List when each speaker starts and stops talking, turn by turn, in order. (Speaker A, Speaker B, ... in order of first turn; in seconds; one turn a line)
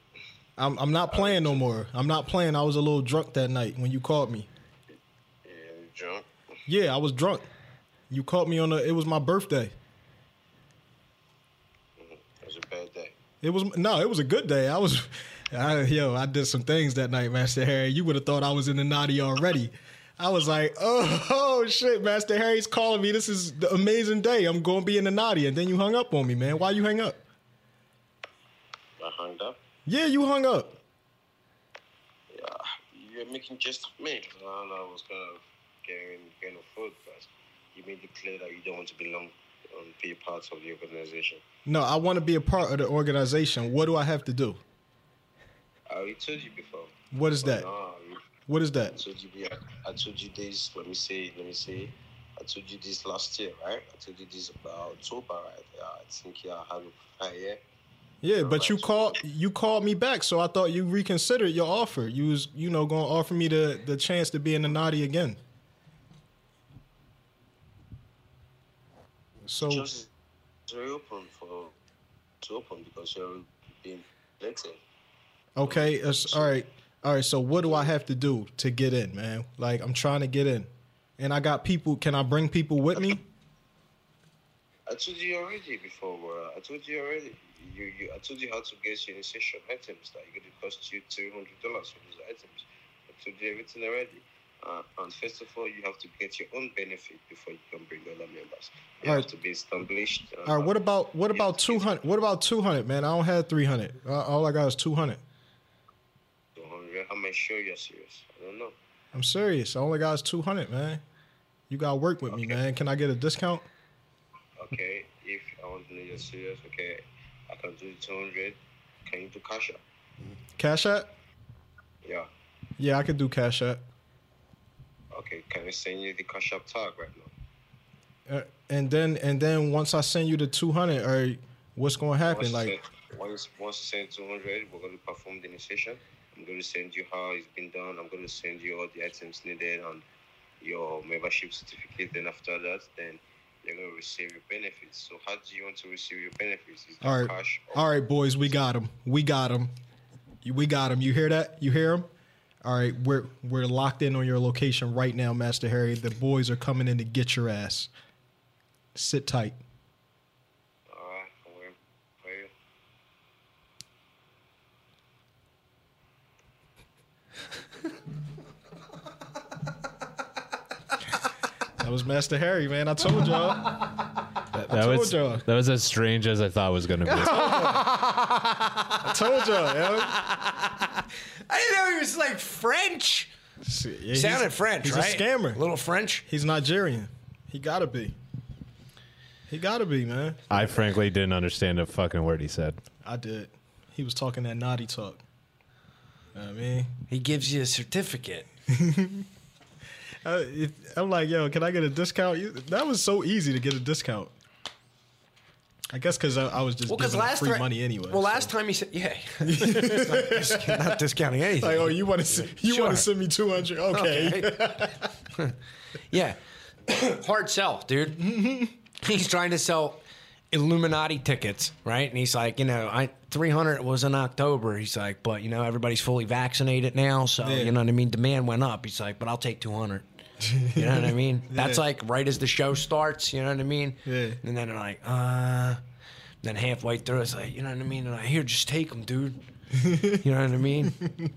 Speaker A: 0.6-4.5
Speaker B: 1.1-1.6
Speaker B: 5.4-6.3
Speaker A: 6.7-7.5
Speaker A: 8.1-9.7
Speaker B: 12.0-13.2
Speaker A: 13.4-27.2
Speaker B: 29.0-29.6
Speaker A: 29.9-30.8
Speaker B: 32.3-41.4
Speaker A: 41.6-44.6
Speaker B: 45.9-48.2
Speaker A: 47.1-47.6
Speaker A: 48.5-49.0
Speaker B: 48.9-57.6
Speaker A: 58.2-65.4
Speaker B: 58.4-59.2
Speaker A: 69.5-69.9
Speaker B: 69.6-70.1
Speaker B: 70.7-71.7
Speaker B: 72.4-74.8
Speaker A: 75.5-83.2
Speaker B: 75.6-76.6
Speaker B: 77.6-77.9
Speaker B: 84.9-100.8
Speaker A: 100.5-105.2
Speaker B: 101.3-102.0
Speaker B: 106.5-108.8
Speaker A: 109.1-111.0
Speaker A: 111.7-113.7
Speaker B: 114.6-119.8
Speaker A: 120.6-121.1
Speaker B: 122.0-122.3
Speaker A: 122.8-123.8
Speaker B: 125.1-127.3
Speaker A: 128.3-132.7
Speaker B: 132.2-140.0
Speaker B: 140.6-147.8
Speaker A: 147.0-149.7
Speaker A: 150.4-152.1
Speaker A: 152.6-157.9
Speaker A: 158.9-159.6
Speaker B: 160.9-162.5
Speaker A: 171.8-173.9
Speaker A: 174.5-175.4
Speaker C: 174.7-177.7
Speaker A: 177.1-177.9
Speaker D: 177.3-179.1
Speaker A: 179.0-180.2
Speaker D: 179.7-183.3
Speaker A: 183.6-185.6
Speaker D: 184.1-186.2
Speaker A: 186.3-188.2
Speaker A: 189.5-190.4
Speaker C: 190.5-192.8
Speaker A: 193.0-195.2
Speaker A: 196.3-196.9
Speaker D: 197.1-198.5
Speaker A: 198.7-199.2
Speaker A: 200.2-204.3
Speaker A: 205.9-208.5
Speaker D: 206.8-213.1
Speaker A: 209.4-211.0
Speaker A: 211.6-215.1
Speaker D: 213.9-214.7
Speaker D: 216.1-218.3
Speaker A: 218.2-218.7
Speaker D: 219.0-230.0
Speaker A: 227.4-227.7
Speaker A: 230.4-231.8
Speaker D: 230.7-235.8
Speaker A: 234.0-234.4
Speaker D: 236.4-239.4
Speaker A: 239.8-240.2
Speaker D: 240.2-241.0